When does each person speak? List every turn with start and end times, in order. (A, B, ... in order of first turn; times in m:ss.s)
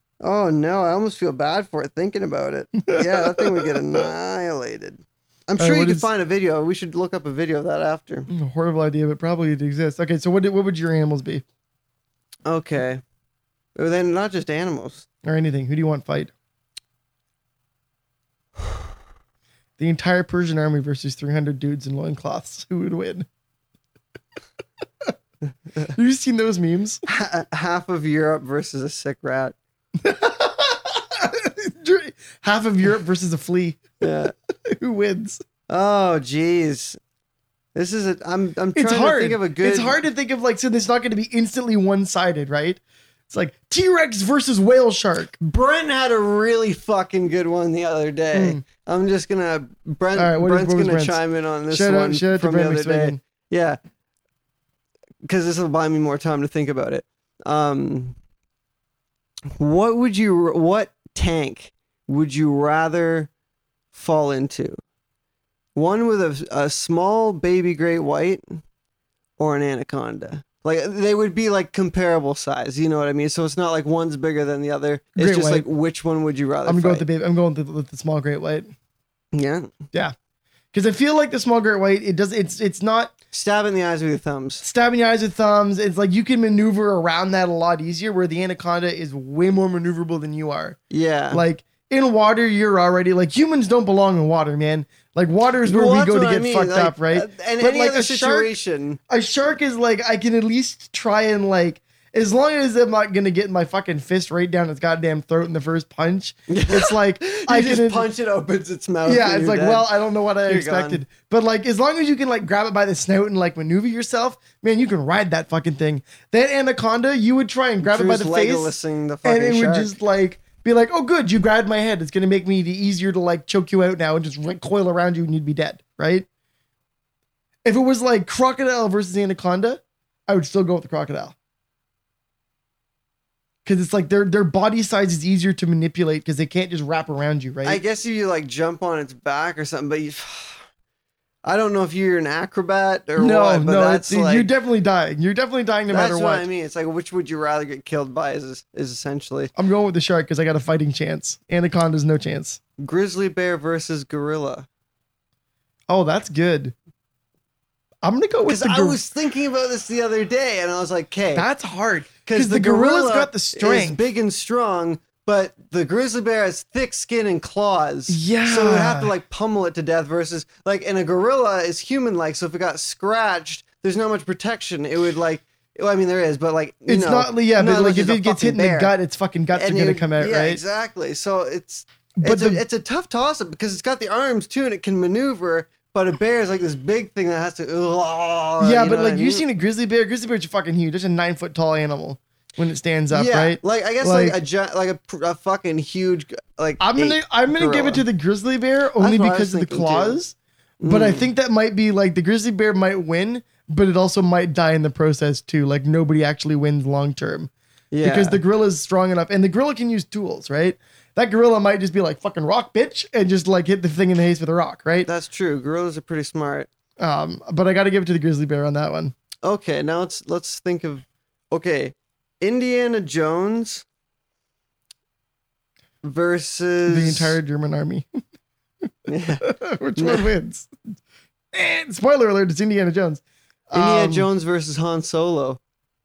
0:00.2-0:08.3 A
0:02.9-0:04.0 B
0:05.6-0:06.1 B
0:08.3-0:11.4 B
0:12.4-0:13.0 A
0:13.8-0:15.0 A
0:15.2-0:16.3 B
0:19.8-0:23.2 B
0:25.8-0:27.0 B
0:27.1-0:29.6 A
0:30.0-0:33.9 B
0:34.0-0:34.3 A
0:34.6-0:35.4 B
0:35.7-0:37.0 A
0:37.7-0:40.0 A
0:38.8-0:45.3 B
0:45.4-0:53.8 A
0:48.3-0:48.6 B
0:50.2-0:53.2 B
0:55.2-0:58.2 A
0:59.5-1:03.3 A
1:03.9-1:04.8 A
1:05.7-1:08.6 A
1:09.4-1:17.0 A
1:15.2-1:15.6 B
1:16.6-1:18.7 B
1:19.3-1:19.7 A
1:20.7-1:23.1 B
1:23.3-1:24.6 A
1:24.6-1:30.8 B
1:30.9-1:31.4 A
1:31.3-1:38.5 B
1:35.6-1:39.0 A
1:39.1-1:48.1 B
1:46.5-1:49.9 A
1:49.0-1:58.7 B
1:50.4-1:51.0 A
1:57.8-1:59.9 A
1:59.2-2:06.3 B
2:07.6-2:11.3 B
2:13.6-2:17.8 B
2:17.6-2:20.6 A
2:21.4-2:24.5 A
2:23.2-2:26.5 B
2:25.9-2:29.5 A
2:29.6-2:32.6 B
2:32.8-2:34.7 A
2:35.9-2:36.7 B
2:38.0-2:39.0 B
2:38.4-2:41.5 A
2:41.3-2:44.0 B
2:42.2-2:58.9 A
2:48.1-2:49.1 B
2:56.9-3:00.6 B
2:59.5-3:09.4 A
3:02.2-3:02.6 B
3:08.6-3:14.4 B
3:13.1-3:18.0 A
3:16.8-3:20.3 B
3:19.0-3:20.2 A
3:20.8-3:21.3 A
3:20.9-3:27.5 B
3:27.9-3:28.4 A
3:28.0-3:35.1 B
3:35.0-3:36.7 A
3:37.0-3:39.1 B
3:39.4-3:43.8 A
3:46.0-3:47.4 A
3:46.9-3:48.0 B
3:49.1-3:49.4 A
3:49.4-3:50.7 B
3:50.0-3:50.3 A
3:51.5-3:54.3 B
3:53.7-3:55.6 A